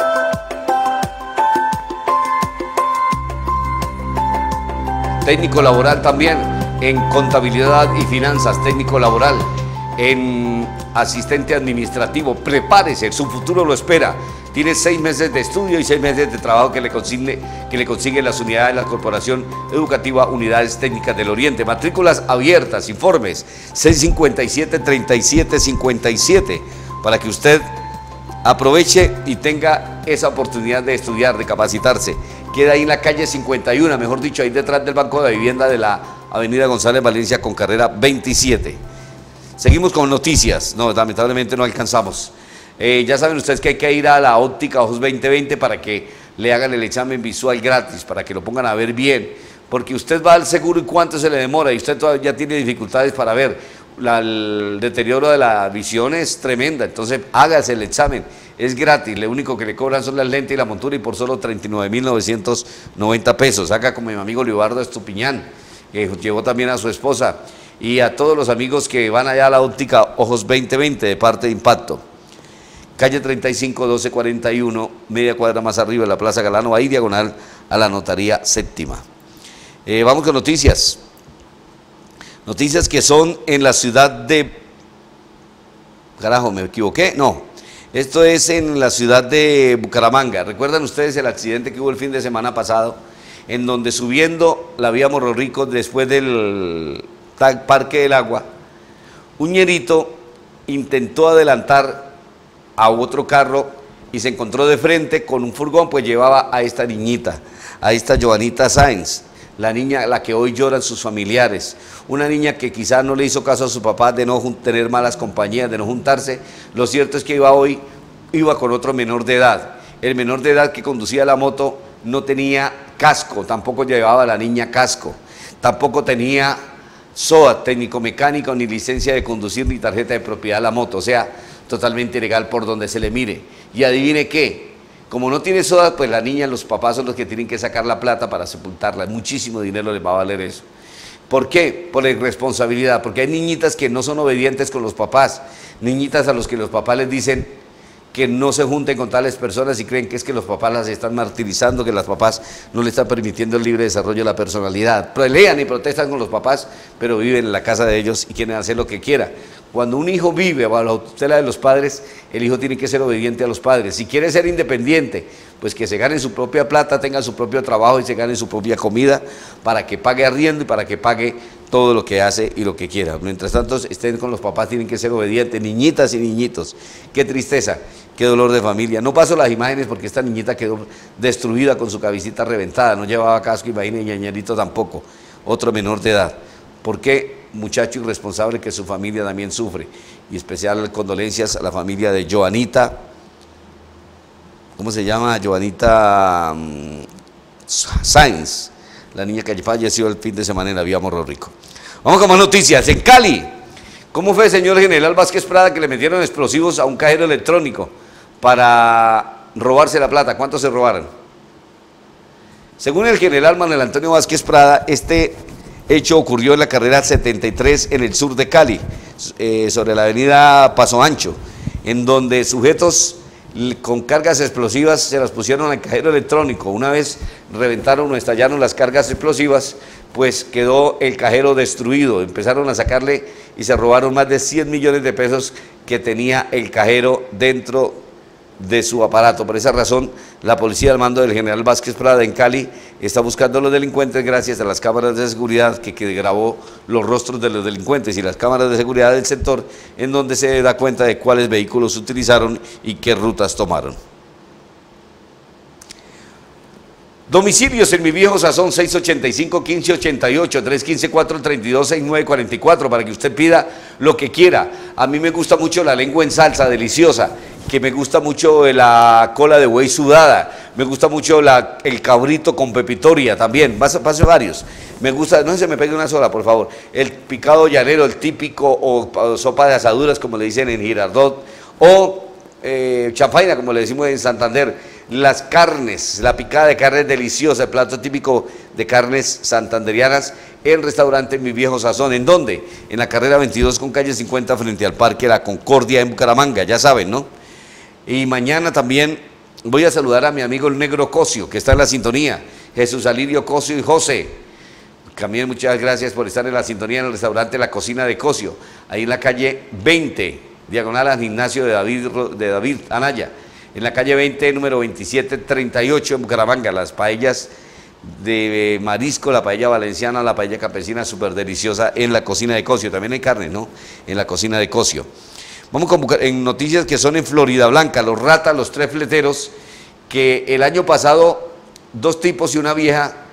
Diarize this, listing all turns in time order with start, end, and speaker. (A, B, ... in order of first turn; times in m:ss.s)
0:05.2-0:27.7 A
0:28.4-0:38.8 A
0:39.6-1:12.0 A
1:13.0-1:19.0 A
1:19.8-1:21.0 A
1:22.4-1:24.6 A
1:26.2-1:38.5 A
1:39.4-1:42.1 A
1:42.8-2:06.6 A
2:07.1-2:20.6 A
2:21.3-2:27.5 A
2:28.1-3:13.0 A
3:14.8-3:17.0 A
3:17.7-3:23.5 A
3:24.1-3:31.1 A
3:32.8-3:58.0 A
3:58.6-4:14.0 A
4:17.3-4:57.3 A
4:58.0-5:04.4 A
5:05.1-5:17.5 A
5:18.0-5:25.1 A
5:25.7-5:29.5 A
5:30.1-5:33.1 A